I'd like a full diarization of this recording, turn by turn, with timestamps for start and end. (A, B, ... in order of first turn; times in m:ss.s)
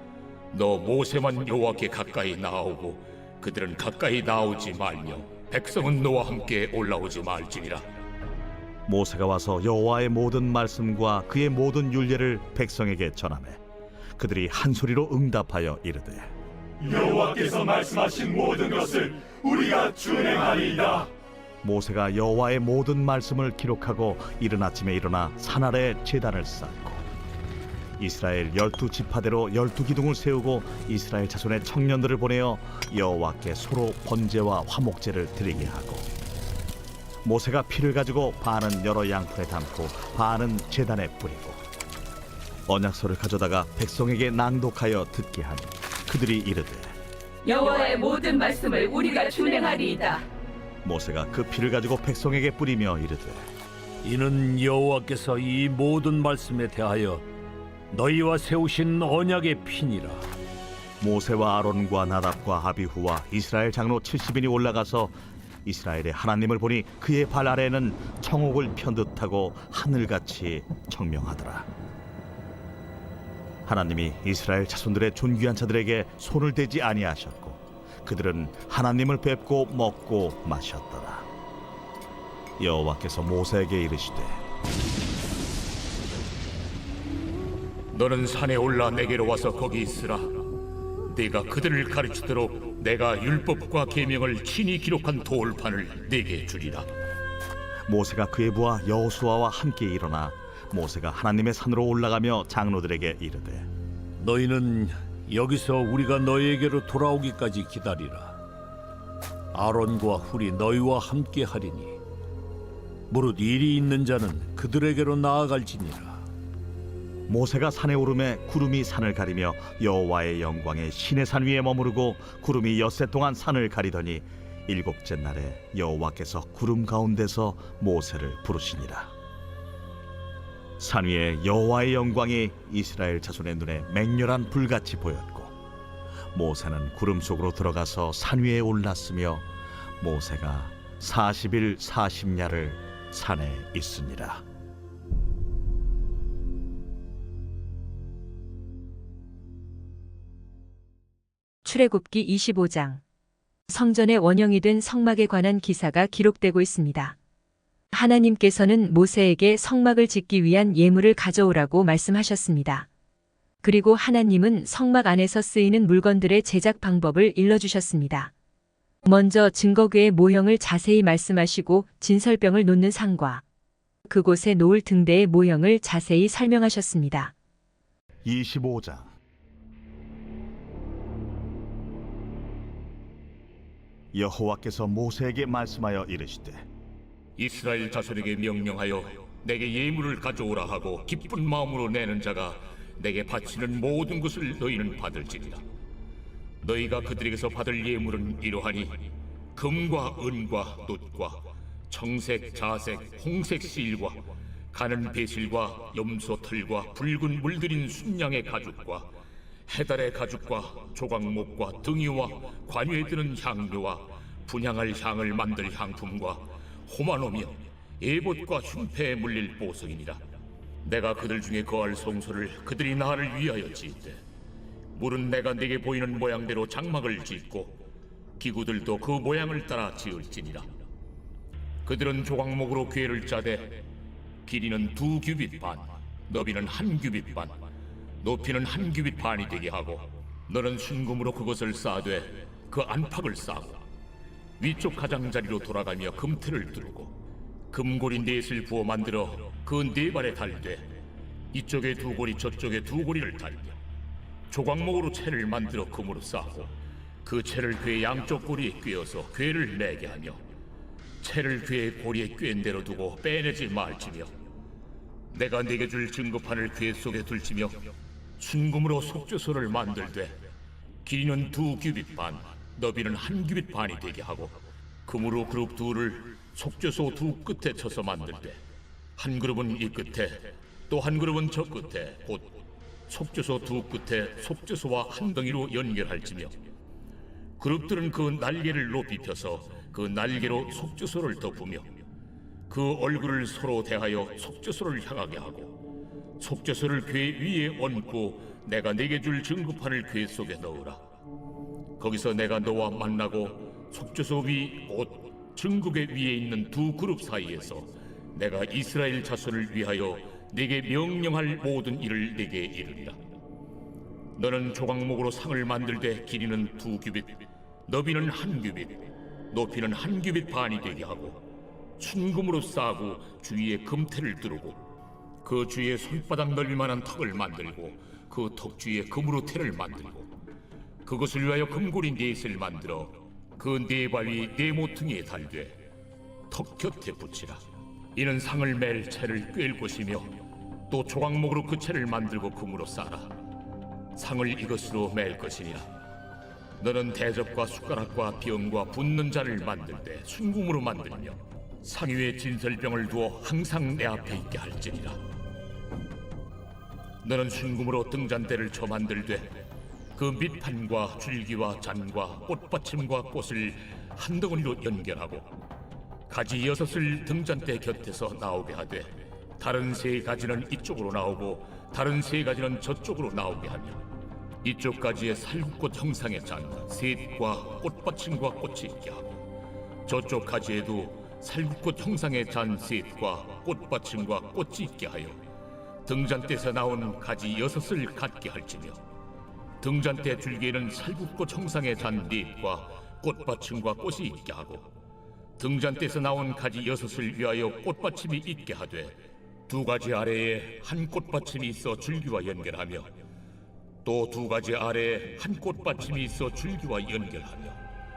0:00.5-0:07.9 A
0:08.9-0:13.6 B
0:14.2-0:16.3 B
0:16.8-0:21.1 C
0:21.6-0:27.0 B
0:28.0-0:36.1 B
0:37.2-0:41.6 B
0:42.7-0:46.9 B
0:47.4-0:50.2 D
0:50.8-0:53.5 B
0:54.0-0:57.3 E
0:57.9-1:00.3 E
1:01.0-1:11.7 B
1:13.6-1:21.3 B
1:22.6-1:24.4 B
1:27.9-1:30.4 A
1:31.1-1:36.9 A
1:37.9-1:43.7 B
1:44.2-1:48.4 E
1:49.5-1:52.0 E
1:53.1-1:56.3 E
1:57.3-2:09.1 B
2:10.8-2:15.6 B
2:16.3-2:19.4 B
2:20.0-2:24.4 B
2:31.6-2:33.0 F
2:33.7-2:37.2 F
2:37.9-2:42.9 F
2:43.6-2:48.3 F
2:49.0-2:53.4 F
2:54.1-2:57.3 F
2:58.2-2:59.1 B
3:04.1-3:06.6 B
3:07.4-3:15.6 A
3:16.6-3:24.2 A
3:24.7-3:29.1 A
3:29.7-3:40.2 A
3:40.8-3:44.2 A
3:44.9-3:47.8 A
3:48.4-3:50.7 A
3:51.8-3:53.8 A
3:54.4-3:57.5 A
3:58.2-4:03.8 A
4:04.6-4:07.2 A
4:07.7-4:10.9 A
4:11.5-4:13.8 A
4:14.5-4:20.4 A
4:21.2-4:24.3 A
4:25.3-4:27.9 A
4:28.4-4:30.4 A
4:31.0-4:38.6 A
4:39.2-4:46.6 A
4:47.6-4:52.0 A
4:52.7-4:55.8 A
4:56.4-5:01.0 A
5:02.0-5:13.2 A
5:14.4-5:21.4 A
5:22.0-5:24.8 A
5:25.4-5:30.3 A
5:31.0-5:35.8 A
5:36.5-5:37.6 A
5:38.1-5:40.3 A
5:40.9-5:43.3 A
5:44.2-5:45.9 A
5:46.8-5:55.2 A
5:57.2-5:59.5 A
6:00.1-6:05.5 A
6:06.3-6:14.0 A
6:14.6-6:19.4 A
6:20.1-6:25.4 A
6:26.0-6:29.0 A
6:29.8-6:34.9 A
6:35.6-6:39.2 A
6:39.7-6:43.1 A
6:44.0-6:47.8 A